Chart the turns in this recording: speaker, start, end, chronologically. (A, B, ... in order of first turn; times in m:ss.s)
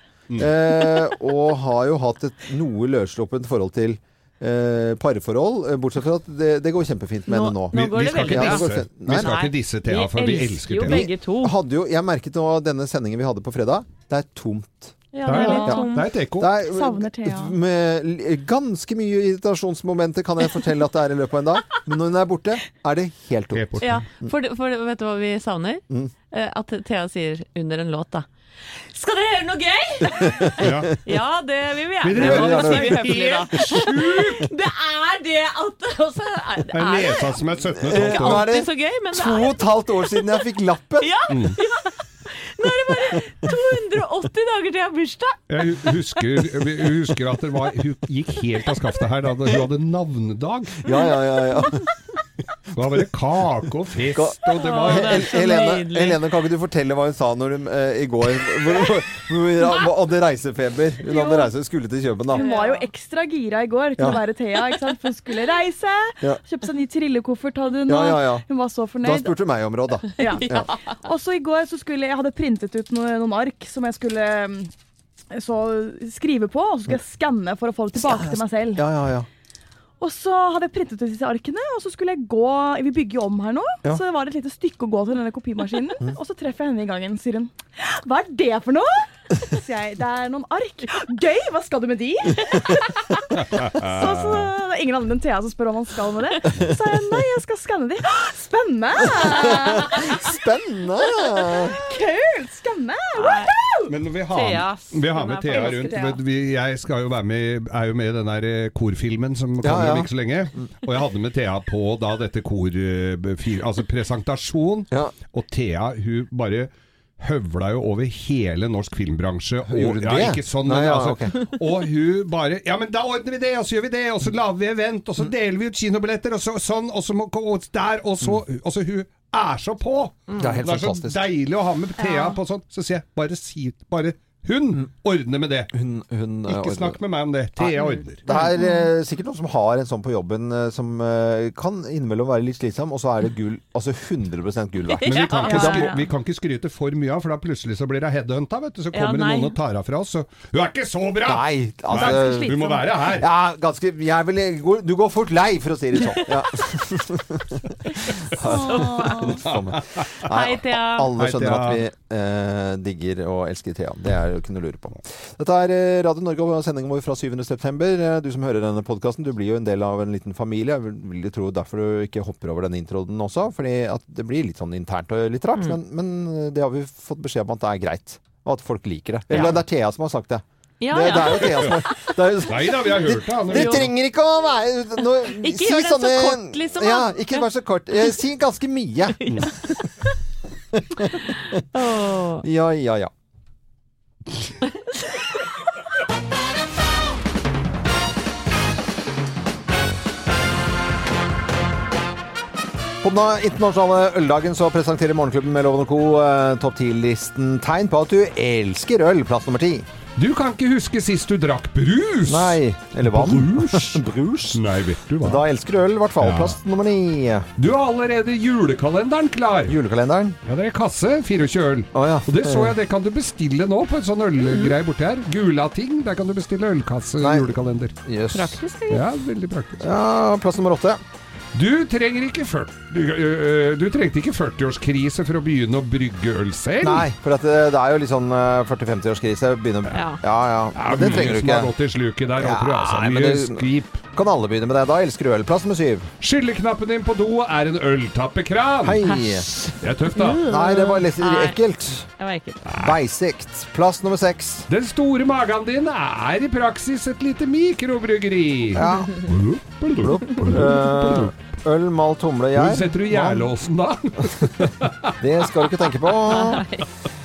0:00.4-0:09.3 A
0:07.3-0:11.6 B
0:07.7-0:11.1 C
0:10.9-0:15.8 A
0:15.1-0:16.1 B
0:15.3-0:16.5 C
0:15.3-0:15.8 D
0:16.4-0:24.3 A
0:16.6-0:17.6 D
0:23.5-0:24.0 C
0:23.8-0:40.3 B
0:30.1-0:30.7 A
0:30.6-0:30.9 C
0:32.0-0:34.5 C
0:32.2-0:33.7 A
0:36.7-0:38.5 C
0:37.9-0:41.1 A
0:41.0-0:45.4 B
0:41.3-0:41.6 C
0:45.5-0:50.8 C
0:50.8-0:51.9 A
0:52.7-0:55.4 C
0:54.2-1:02.4 A
0:54.6-0:56.2 B
1:01.1-1:01.5 D
1:02.3-1:02.9 B
1:02.3-1:09.4 D
1:07.9-1:08.4 A
1:09.0-1:10.7 A
1:10.2-1:11.0 B
1:10.2-1:14.7 D
1:15.3-1:18.8 D
1:18.0-1:19.3 A
1:20.0-1:32.9 D
1:33.4-1:34.5 C
1:33.7-1:40.2 D
1:39.0-1:41.8 A
1:41.4-1:43.9 D
1:43.2-1:43.6 B
1:43.9-2:15.7 C
1:44.3-1:46.2 B
1:45.5-1:46.2 D
1:49.6-1:50.1 A
1:59.7-2:01.4 A
2:10.4-2:11.2 A
2:12.0-2:12.4 B
2:15.7-2:17.0 A
2:16.5-2:18.2 C
2:17.6-2:26.0 A
2:17.8-2:18.7 B
2:24.9-2:26.1 B
2:25.0-2:33.3 C
2:28.9-2:29.6 B
2:31.2-2:32.5 A
2:32.0-2:32.9 D
2:33.1-3:09.3 A
2:38.4-2:39.4 D
2:38.5-2:39.4 B
2:39.4-2:40.1 C
2:40.3-2:41.1 B
2:41.2-2:41.8 C
2:59.3-2:59.6 C
2:59.3-2:59.6 B
3:00.8-3:02.0 B
3:02.4-3:03.9 C
3:03.5-3:03.9 B
3:05.2-3:07.5 B
3:09.1-3:09.8 B
3:10.7-3:11.4 A
3:11.2-3:12.4 B
3:12.4-3:13.1 A
3:14.6-3:14.9 B
3:23.0-3:29.9 A
3:30.2-3:35.4 C
3:32.3-3:34.6 A
3:35.2-3:37.5 A
3:36.2-3:36.6 C
3:37.6-3:39.8 C
3:39.7-3:40.4 A
3:40.4-3:48.0 C
3:41.9-3:42.8 A
3:44.5-3:44.7 B
3:47.2-3:47.5 A
3:48.0-3:48.6 A
3:48.3-3:49.1 B
3:48.9-3:49.9 C
3:49.8-3:51.0 A
3:51.5-3:57.1 C
3:56.8-4:01.7 A
3:59.9-4:00.2 B
4:00.8-4:04.0 C
4:02.4-4:06.1 A
4:06.2-4:09.0 C
4:08.8-4:09.5 A
4:09.0-4:11.6 B
4:09.8-4:10.5 C
4:10.5-4:12.1 A
4:12.1-4:12.6 B
4:12.6-4:13.0 C
4:12.8-4:14.7 A
4:14.7-4:21.3 C
4:18.8-4:19.2 A
4:20.0-4:23.5 A
4:22.6-4:25.6 C
4:25.2-4:26.7 A
4:26.3-4:26.9 B